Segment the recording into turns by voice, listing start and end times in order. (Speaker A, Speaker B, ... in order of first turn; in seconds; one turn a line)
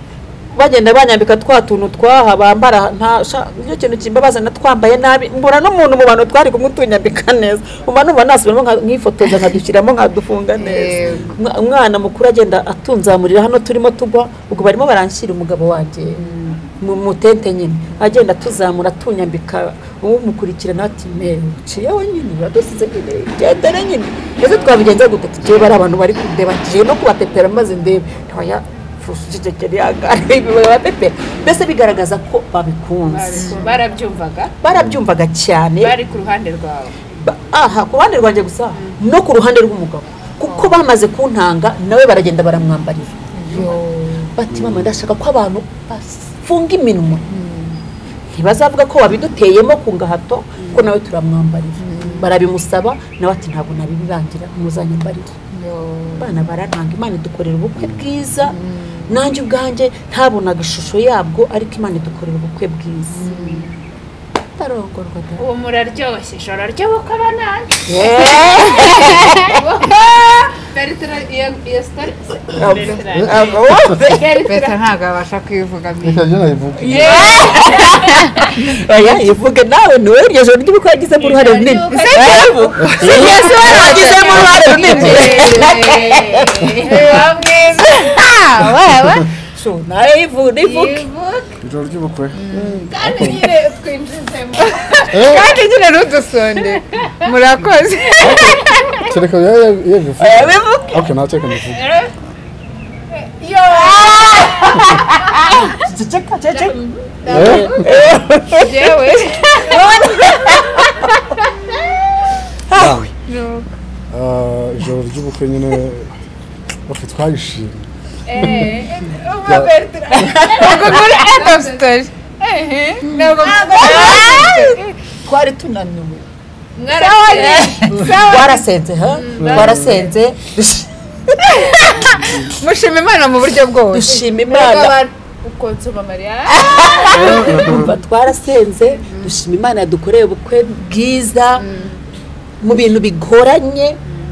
Speaker A: 0.5-33.8
Speaker B: 10.6-11.4
Speaker B: 16.1-16.6
Speaker C: 24.4-24.7
Speaker C: 33.1-34.5
Speaker B: 33.4-33.8
Speaker A: 34.6-36.0
Speaker D: 34.7-35.0
Speaker C: 35.8-36.9
Speaker A: 37.2-43.7
Speaker B: 40.5-40.8
Speaker B: 43.4-44.3
Speaker A: 44.3-47.3
Speaker D: 44.5-44.8
Speaker B: 47.3-47.8
Speaker A: 48.3-55.4
Speaker B: 51.8-52.3
Speaker B: 55.5-56.4
Speaker A: 56.2-63.3
Speaker B: 58.5-59.2
Speaker B: 63.1-63.8
Speaker C: 63.2-63.7
Speaker A: 64.6-65.5
Speaker C: 65.4-74.8
Speaker A: 67.9-69.6
Speaker A: 72.5-74.4
Speaker B: 74.5-76.3
Speaker D: 76.0-77.0
Speaker A: 76.8-87.3
Speaker C: 76.8-78.6
Speaker B: 77.0-77.7
Speaker C: 81.2-87.4
Speaker B: 82.0-86.0
Speaker B: 86.8-89.3
Speaker A: 89.5-91.0
Speaker C: 90.6-91.6
Speaker D: 91.6-93.5
Speaker B: 92.3-92.9
Speaker C: 92.9-95.3
Speaker B: 94.8-99.0
Speaker D: 95.1-95.5
Speaker C: 98.1-99.1
Speaker D: 98.2-101.8
Speaker A: 100.2-101.0
Speaker C: 101.6-102.1
Speaker C: 103.1-105.7
Speaker A: 103.7-111.2
Speaker C: 106.5-107.9
Speaker D: 107.3-107.8
Speaker B: 108.6-109.6
Speaker C: 108.6-111.6
Speaker A: 112.7-113.1
Speaker D: 112.7-113.1
Speaker B: 113.3-113.7
Speaker D: 114.1-116.2
Speaker D: 116.9-118.8
Speaker C: 118.3-121.9
Speaker D: 119.5-120.5
Speaker B: 120.4-125.0
Speaker C: 123.2-124.5
Speaker A: 123.5-126.3
Speaker C: 126.8-130.1
Speaker A: 126.9-132.3
Speaker B: 127.3-128.2
Speaker D: 129.5-129.8
Speaker B: 132.2-134.2
Speaker A: 133.9-135.0
Speaker C: 134.5-137.8
Speaker A: 136.5-141.7
Speaker D: 137.4-137.8
Speaker B: 141.6-142.0
Speaker A: 142.6-144.0